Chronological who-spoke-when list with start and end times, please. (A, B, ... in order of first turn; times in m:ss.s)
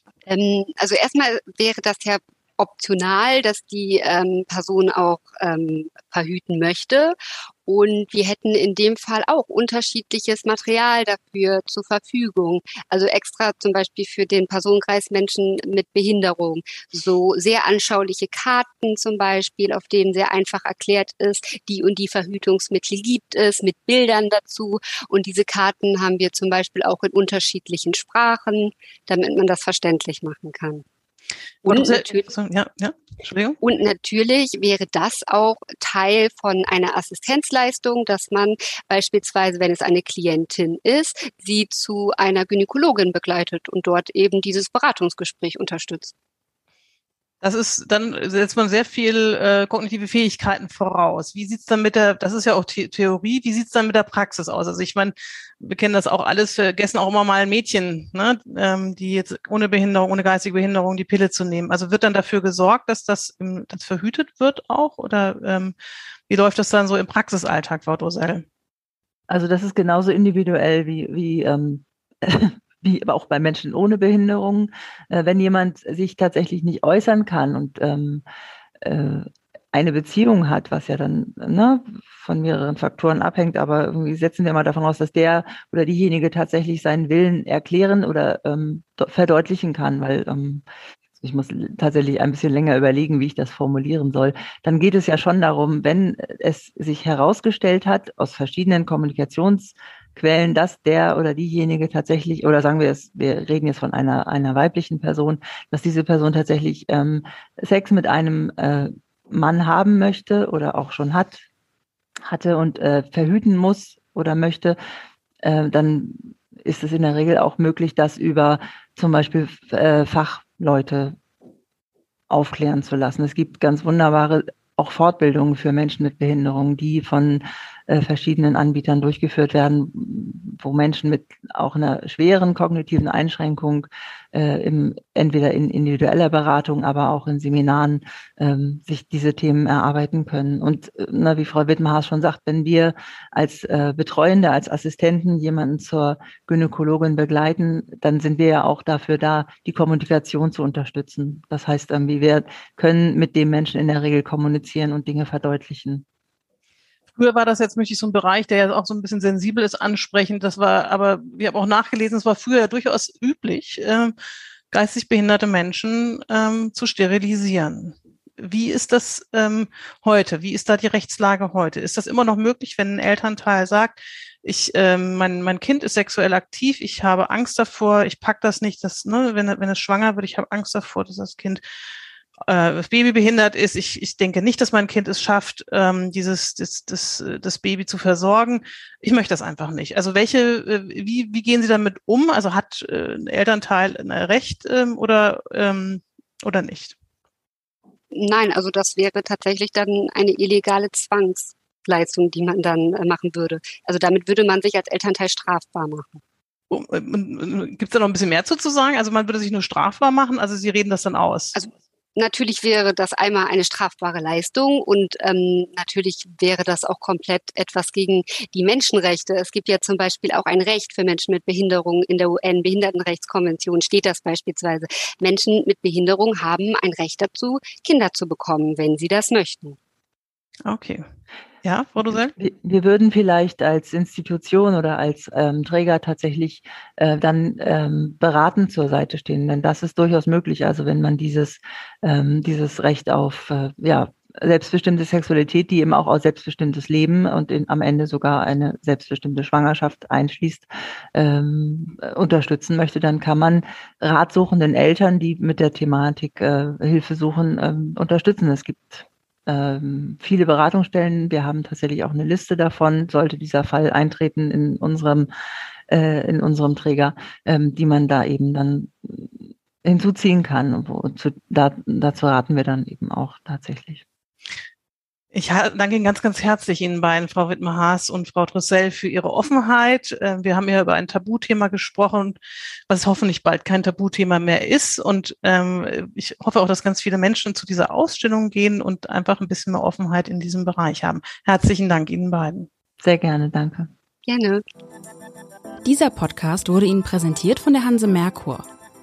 0:00.3-0:30.8 A
0:31.6-0:33.6 B
0:31.6-0:32.2 A
0:33.6-0:46.1 A
0:47.4-1:05.7 B
1:06.3-1:08.4 B
1:09.3-1:18.2 C
1:18.8-1:30.6 C
1:31.2-1:51.4 C
1:52.2-1:54.8 C
1:55.4-2:01.2 C
2:02.3-2:36.0 C
2:37.2-2:44.1 B
2:44.7-3:01.6 B
3:02.4-3:16.9 B
3:18.1-3:26.2 A
3:26.7-3:31.6 B
3:31.5-3:49.8 A
3:50.6-3:51.0 B
3:51.6-3:52.3 B
3:52.1-4:25.3 C
4:25.9-4:34.0 C
4:35.3-4:42.4 B
4:42.9-4:52.7 B
4:53.0-4:53.9 C
4:54.2-4:54.6 A
4:55.8-4:58.6 D